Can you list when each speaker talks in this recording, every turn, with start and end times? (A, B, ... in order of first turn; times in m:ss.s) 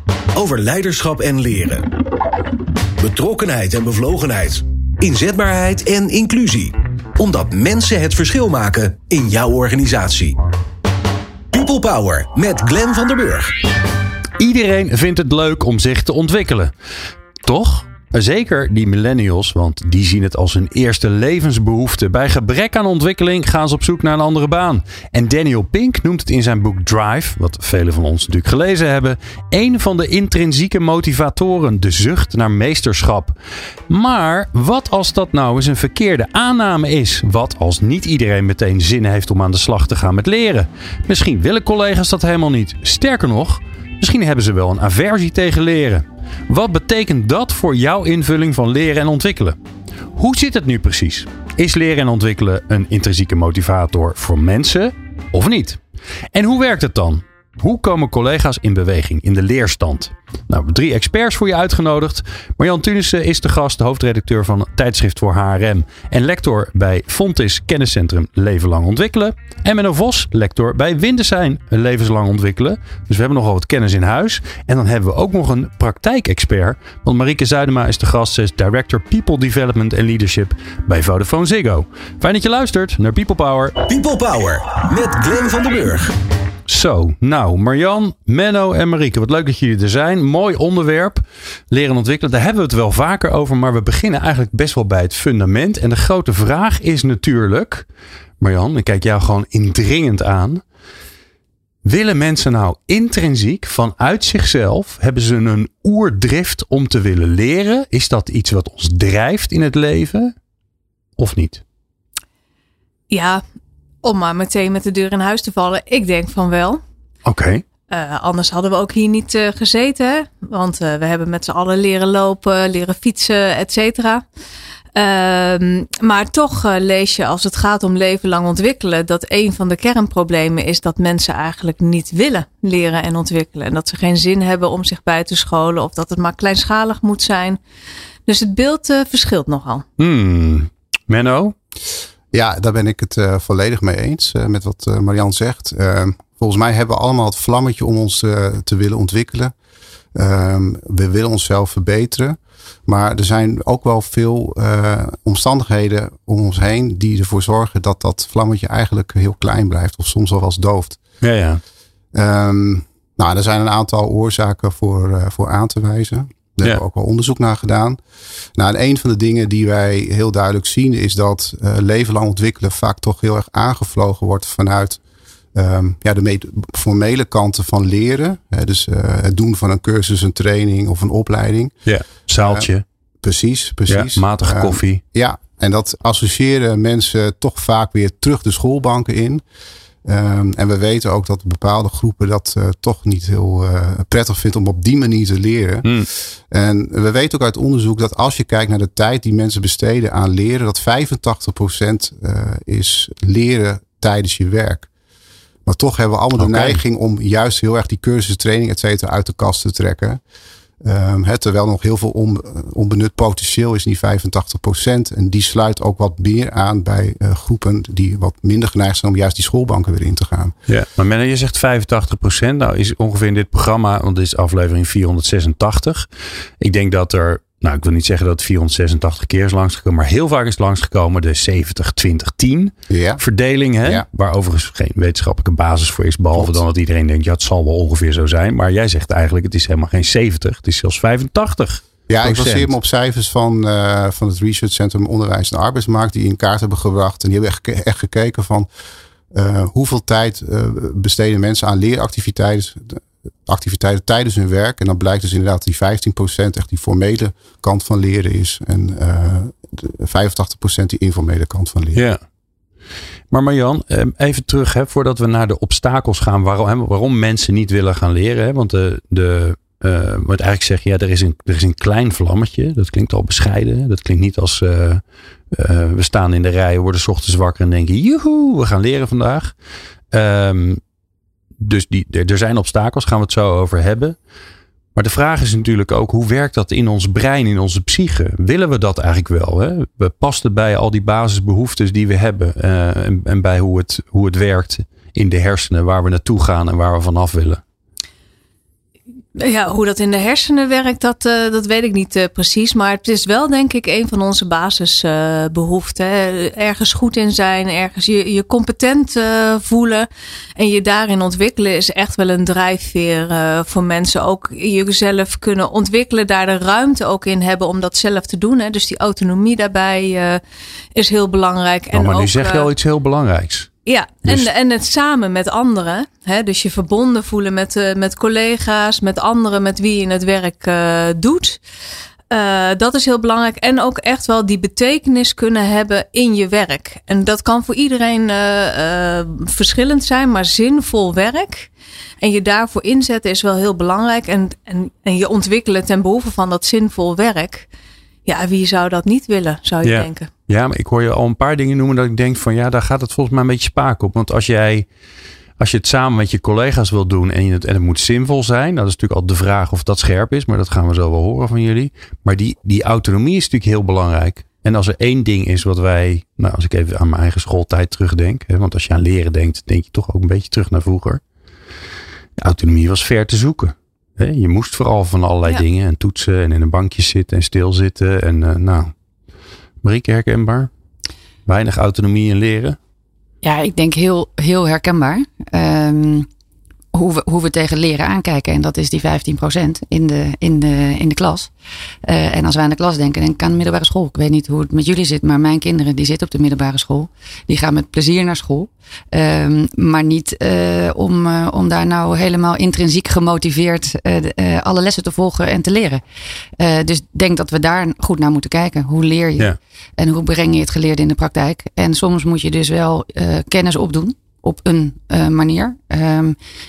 0:00.3-0:01.9 A
0:03.0-0:10.4 A
0:11.5-0:13.5 A
0:14.4-0:16.7 B
0:17.4-0:33.3 B
0:33.9-0:49.6 B
0:50.1-0:55.8 B
0:56.3-1:23.8 B
1:23.9-1:26.1 A
1:26.7-1:37.8 B
1:38.4-1:40.6 B
1:41.8-1:50.3 B
1:51.2-1:51.6 B
1:53.1-1:53.4 C
1:54.0-1:56.8 C
1:57.2-1:57.6 B
1:57.9-2:04.2 C
2:04.9-2:17.6 C
2:18.2-2:19.8 C
2:20.0-2:21.5 B
2:22.3-2:29.5 D
2:30.1-2:41.0 D
2:41.2-2:41.6 B
2:42.1-2:48.0 D
2:48.6-2:55.0 D
2:55.5-3:01.7 D
3:01.8-3:02.8 B
3:02.4-3:02.7 D
3:03.2-3:09.4 D
3:03.9-3:05.0 B
3:10.0-3:24.9 D
3:25.6-3:30.2 D
3:26.4-3:26.8 B
3:30.8-3:40.5 D
3:40.7-3:46.1 B
3:46.6-4:02.7 B
3:52.9-3:53.2 D
4:02.1-4:08.7 D
4:09.3-4:22.0 D
4:21.9-4:22.2 B
4:23.3-4:39.5 B
4:40.1-4:40.8 B
4:41.6-4:44.2 B
4:44.9-4:57.6 B
4:59.4-5:20.4 C
5:20.9-5:22.7 C
5:21.9-5:23.7 B
5:23.8-5:31.6 C
5:32.3-5:47.7 C
5:48.2-5:50.3 C
5:49.8-5:54.8 B
5:55.6-6:11.2 B
6:12.4-6:18.9 B
6:19.8-6:20.7 B
6:21.4-6:22.8 B
6:23.4-6:26.3 E
6:26.9-6:31.5 E
6:32.0-6:46.0 E
6:46.6-6:56.4 E